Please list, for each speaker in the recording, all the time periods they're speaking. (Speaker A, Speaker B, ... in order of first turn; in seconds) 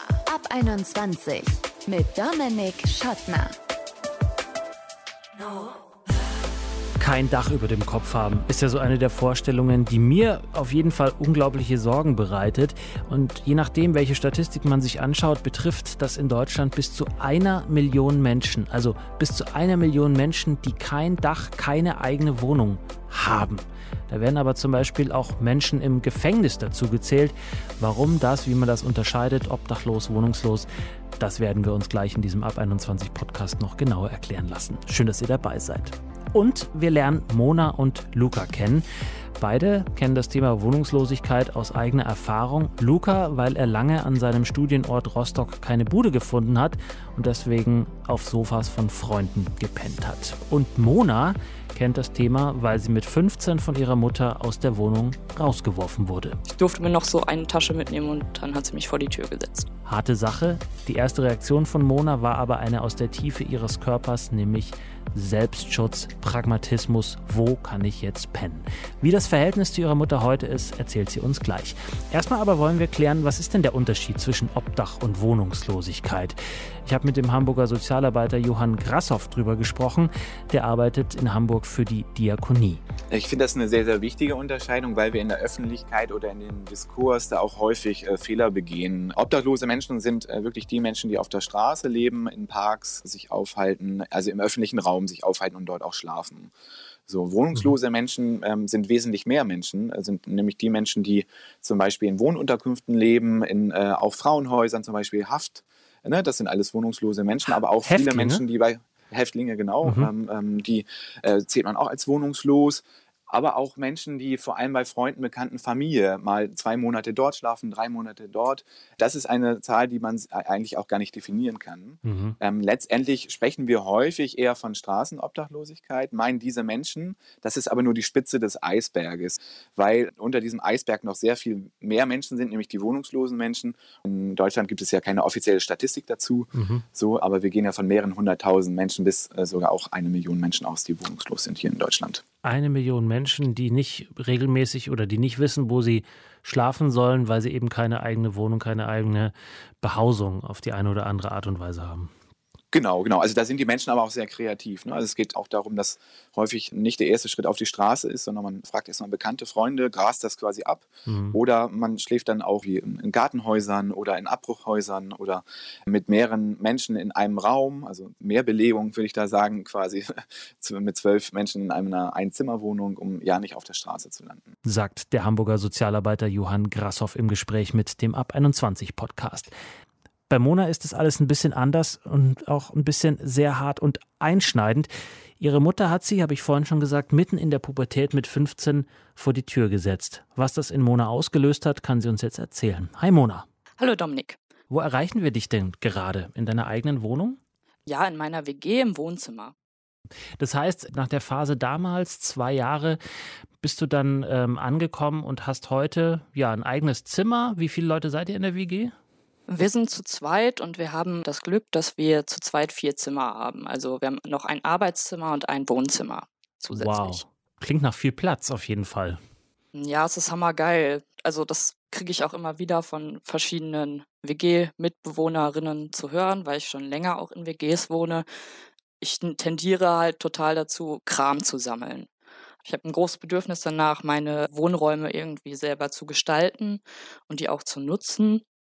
Speaker A: 0.2-3.5, 5.4-5.7
Speaker B: 7.0-30.7, 31.2-38.9, 39.4-56.4, 59.9-82.8, 107.9-108.4, 109.8-110.1, 122.0-122.4, 136.5-136.8, 142.4-152.1, 161.1-161.4, 174.7-179.5, 180.3-184.9, 185.4-193.5, 194.7-197.4, 200.4-203.0, 203.6-208.9, 216.7-219.2
Speaker C: 56.5-59.7, 193.8-194.4, 197.9-199.5, 209.5-217.2, 219.7-228.3, 229.0-232.1, 232.6-238.4
Speaker D: 83.1-96.5, 97.1-142.2, 152.7-174.5